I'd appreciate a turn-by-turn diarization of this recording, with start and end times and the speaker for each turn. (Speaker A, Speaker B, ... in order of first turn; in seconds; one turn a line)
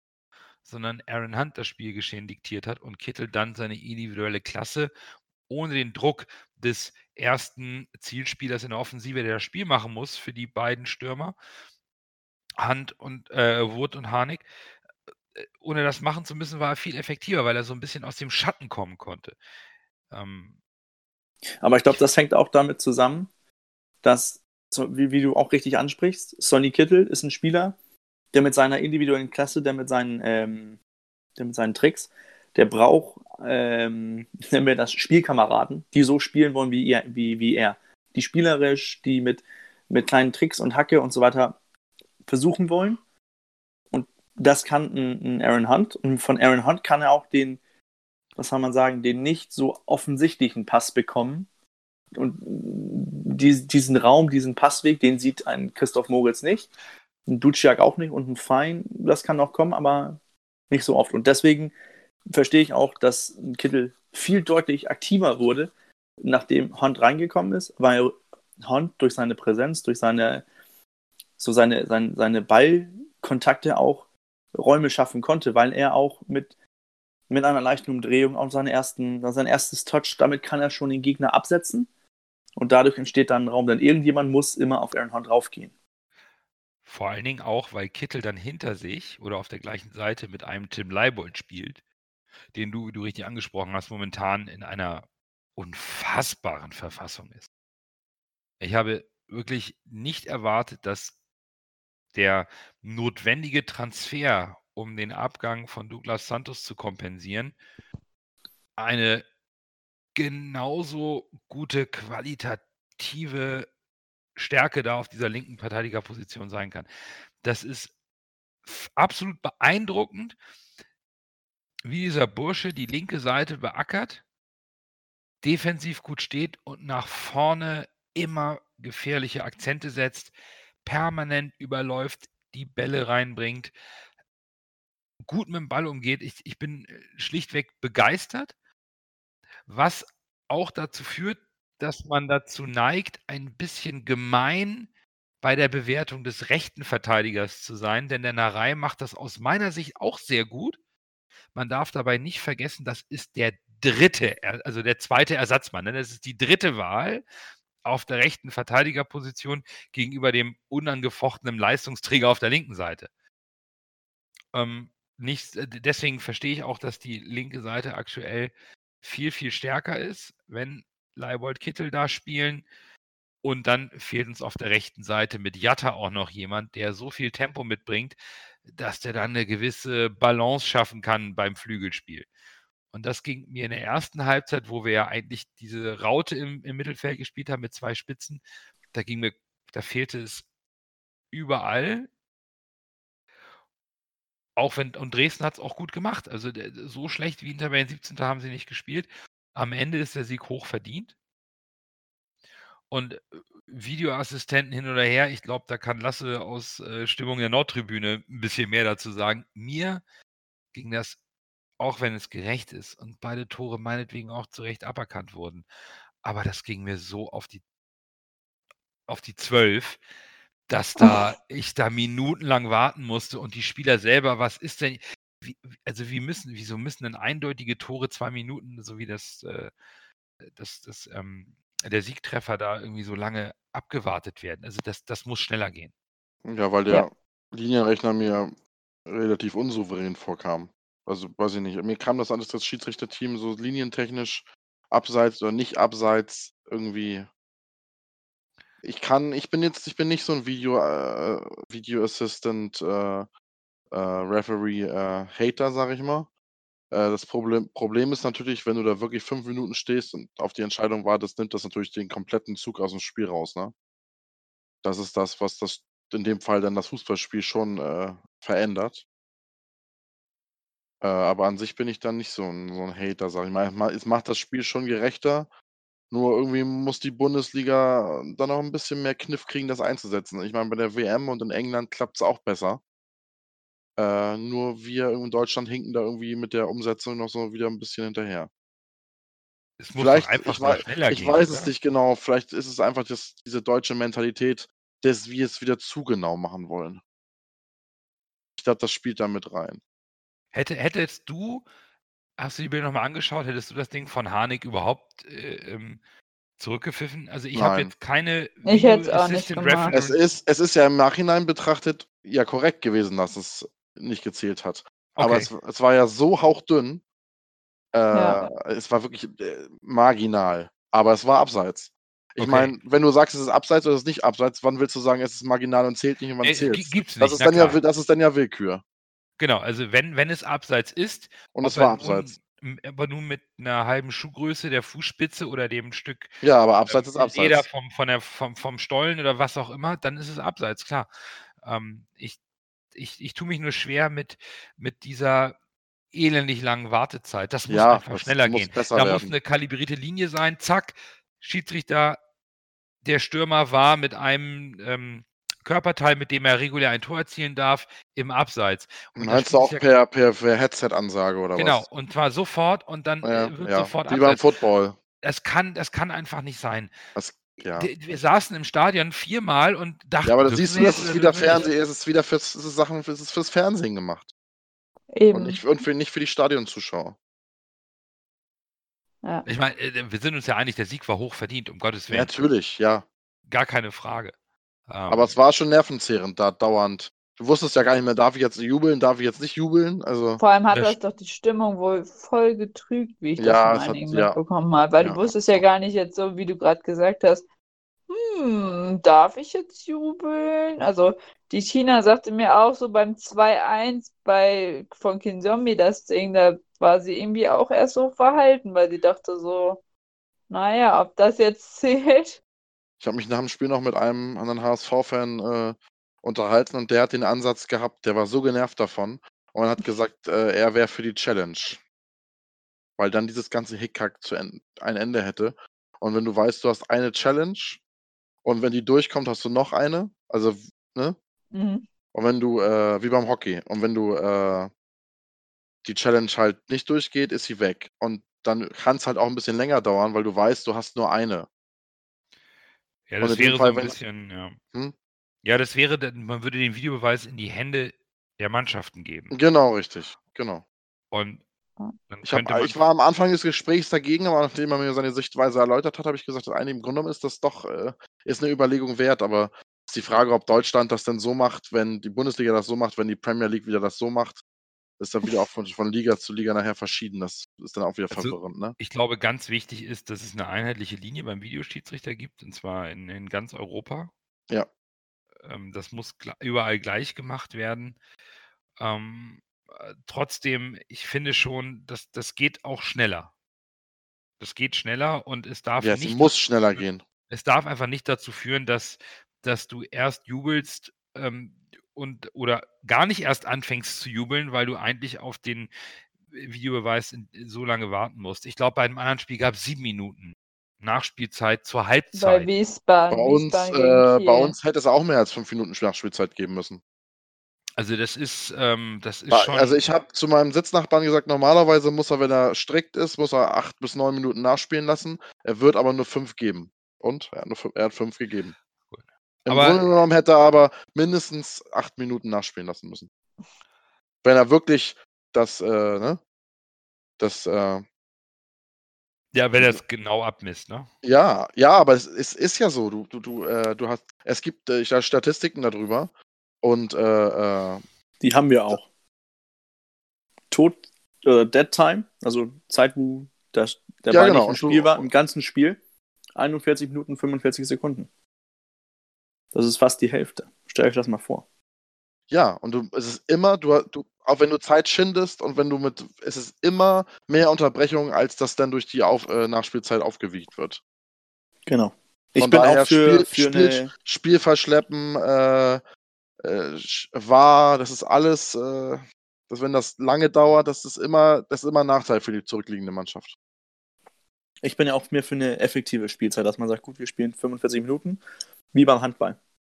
Speaker A: 0.6-4.9
Speaker A: 5.5-11.3
Speaker A: 12.6-14.4
Speaker A: 15.6-19.4
Speaker A: 20.1-20.5
Speaker B: 21.6-23.3
Speaker B: 24.0-27.8
Speaker B: 28.3-30.8
Speaker B: 31.4-41.6
Speaker B: 42.2-43.0
Speaker B: 43.9-47.6
Speaker B: 48.4-51.5
Speaker B: 52.1-56.7
Speaker B: 57.3-60.2
Speaker B: 60.7-61.7
Speaker B: 62.3-70.4
Speaker B: 71.4-76.5
Speaker B: 77.3-81.9
Speaker B: 82.6-85.7
Speaker A: 86.8-91.8
Speaker A: 92.5-97.5
Speaker A: 98.6-101.1
Speaker A: 102.1-107.5
Speaker A: 108.8-109.2
Speaker A: 110.1-113.7
Speaker A: 114.3-116.9
Speaker A: 117.4-117.9
Speaker A: 118.7-120.3
Speaker A: 121.8-124.2
Speaker A: 125.4-130.3
Speaker A: 130.8-133.7
Speaker A: 135.2-138.5
Speaker A: 139.7-144.9
Speaker A: 145.4-150.8
Speaker A: 151.5-157.2
Speaker A: 157.8-163.1
Speaker A: 164.5-172.6
Speaker A: 173.4-182.3
Speaker A: 182.9-188.4
Speaker A: 188.9-190.4
Speaker A: 191.3-192.1
Speaker A: 194.6-201.1
Speaker A: 202.9-210.0
Speaker A: 210.7-211.2
Speaker A: 211.8-215.7
Speaker A: 216.2-217.6
Speaker A: 219.1-220.0
Speaker A: 220.7-229.7
Speaker A: 230.4-235.9
Speaker C: 236.4-238.5
Speaker C: 239.1-247.3
Speaker C: 248.8-253.3
Speaker C: 253.9-256.3
Speaker C: 256.9-263.7
Speaker C: 264.8-269.0
Speaker C: 271.0-275.5
Speaker C: 276.1-282.8
Speaker C: 284.0-288.5
Speaker A: 289.8-291.7
Speaker C: 290.0-297.0
Speaker C: 298.6-299.8
Speaker A: 300.5-301.6
Speaker A: 302.4-306.0
Speaker A: 306.6-310.2
Speaker C: 307.5-307.9
Speaker D: 308.6-309.9
Speaker C: 309.9-317.0
Speaker A: 315.2-315.5
Speaker C: 317.9-328.8
Speaker D: 318.1-318.4
Speaker A: 322.4-322.8
Speaker A: 326.4-327.8
Speaker A: 329.4-342.4
Speaker C: 331.6-332.3
Speaker C: 336.4-337.6
Speaker A: 342.9-345.6
Speaker A: 346.1-352.2
Speaker C: 347.7-349.3
Speaker A: 353.0-359.9
Speaker C: 359.2-361.8
Speaker A: 361.6-364.4
Speaker C: 363.2-365.0
Speaker A: 365.2-367.0
Speaker C: 367.1-367.9
Speaker A: 367.8-371.7
Speaker C: 370.2-374.3
Speaker D: 370.8-371.0
Speaker D: 375.1-375.6
Speaker C: 375.3-377.1
Speaker A: 379.4-382.3
Speaker C: 382.1-383.1
Speaker A: 383.5-384.3
Speaker A: 384.9-385.3
Speaker C: 385.1-390.4
Speaker D: 390.4-397.4
Speaker A: 390.7-391.0
Speaker C: 393.4-394.4
Speaker C: 395.0-395.6
Speaker D: 398.1-409.8
Speaker D: 410.5-412.4
Speaker C: 413.0-421.8
Speaker C: 423.0-427.8
Speaker C: 428.4-431.1
Speaker D: 431.5-431.8
Speaker C: 432.1-434.7
Speaker C: 435.8-441.5
Speaker A: 443.1-444.6
Speaker C: 443.2-443.9
Speaker A: 445.4-449.4
Speaker C: 449.3-450.6
Speaker A: 451.1-451.4
Speaker A: 452.1-452.7
Speaker C: 452.2-464.4
Speaker C: 465.0-468.8
Speaker A: 468.1-474.1
Speaker A: 475.4-478.0
Speaker A: 478.8-483.3
Speaker A: 484.4-495.7
Speaker C: 485.8-487.0
Speaker A: 496.3-502.5
Speaker D: 502.1-504.5
Speaker C: 503.1-506.8
Speaker A: 507.8-509.8
Speaker C: 509.3-518.5
Speaker A: 518.9-519.9
Speaker C: 519.5-523.1
Speaker C: 524.2-526.2
Speaker C: 527.2-527.8
Speaker A: 529.3-530.9
Speaker C: 531.0-537.8
Speaker B: 538.2-538.9
Speaker B: 540.5-545.8
Speaker C: 544.1-545.0
Speaker B: 546.4-548.1
Speaker B: 549.5-551.4
Speaker C: 552.3-560.8
Speaker B: 561.7-563.9
Speaker C: 562.4-565.8
Speaker C: 566.4-573.3
Speaker B: 574.6-578.2
Speaker B: 578.7-579.4